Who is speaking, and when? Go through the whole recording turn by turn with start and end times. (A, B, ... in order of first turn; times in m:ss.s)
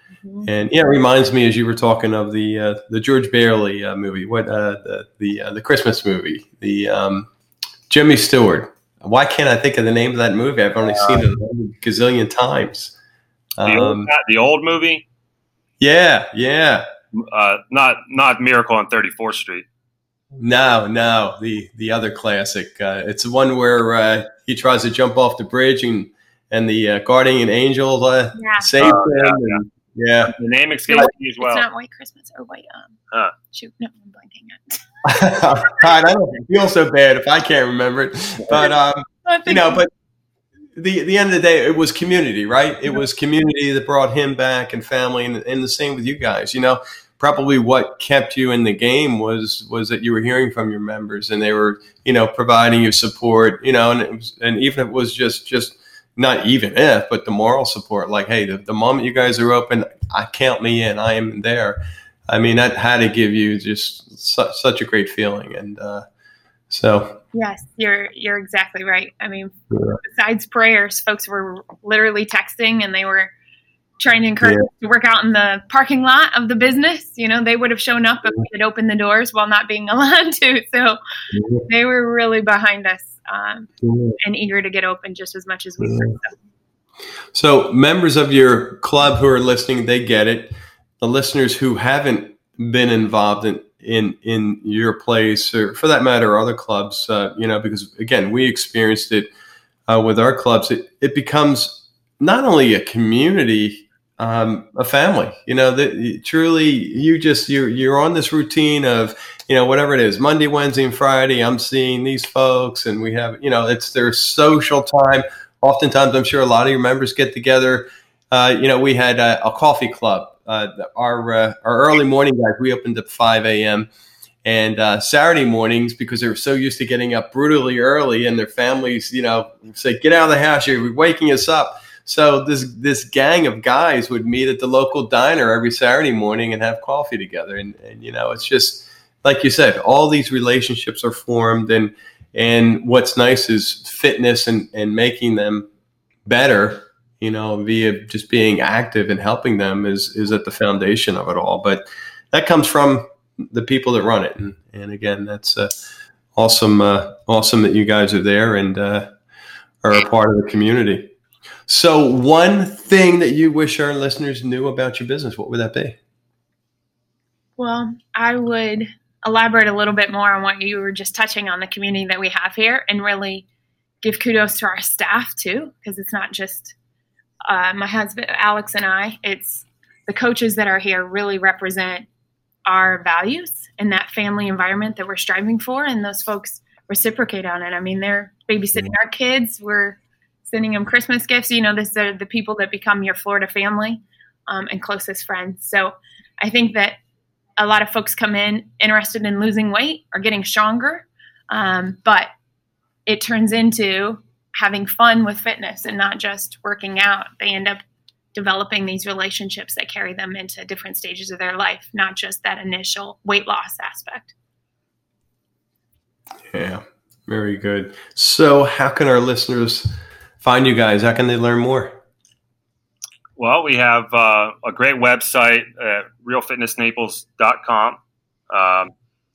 0:00.2-0:00.5 A
0:00.4-0:07.3 B
0:07.9-0:12.9 B
0:10.8-0:11.2 C
0:13.6-0:14.1 B
0:13.6-0:15.0 C
0:15.8-0:16.8 B
0:17.1-0:19.6 C
0:20.4-0:30.3 B
0:28.4-0:28.7 A
0:28.8-0:29.6 C
0:30.3-0:31.7 C
0:30.9-0:33.0 A
0:33.5-0:34.8 A
0:35.0-0:39.9 B
0:39.2-0:39.8 A
0:40.8-1:06.0 B
1:06.7-1:07.2 B
1:07.3-1:13.3 A
1:09.7-1:10.0 B
1:14.0-1:21.0 A
1:14.4-1:14.7 B
1:21.3-1:21.6 B
1:21.7-1:26.4 A
1:23.8-1:24.2 B
1:25.8-1:26.1 B
1:27.3-1:39.3 B
1:39.9-2:03.9 B
2:04.4-2:25.7 B
2:26.3-2:35.7 B
2:36.4-2:39.1 B
2:39.8-2:41.1 B
2:41.7-2:46.0 B
2:47.6-2:53.5 A
2:54.0-2:56.8 A
2:57.5-3:02.1 A
3:02.7-3:17.0 A
3:17.6-3:22.3 A
3:23.1-3:27.8 A
3:28.3-3:34.3 A
3:36.5-3:42.0 B
3:43.4-3:48.0 C
3:48.5-3:48.9 C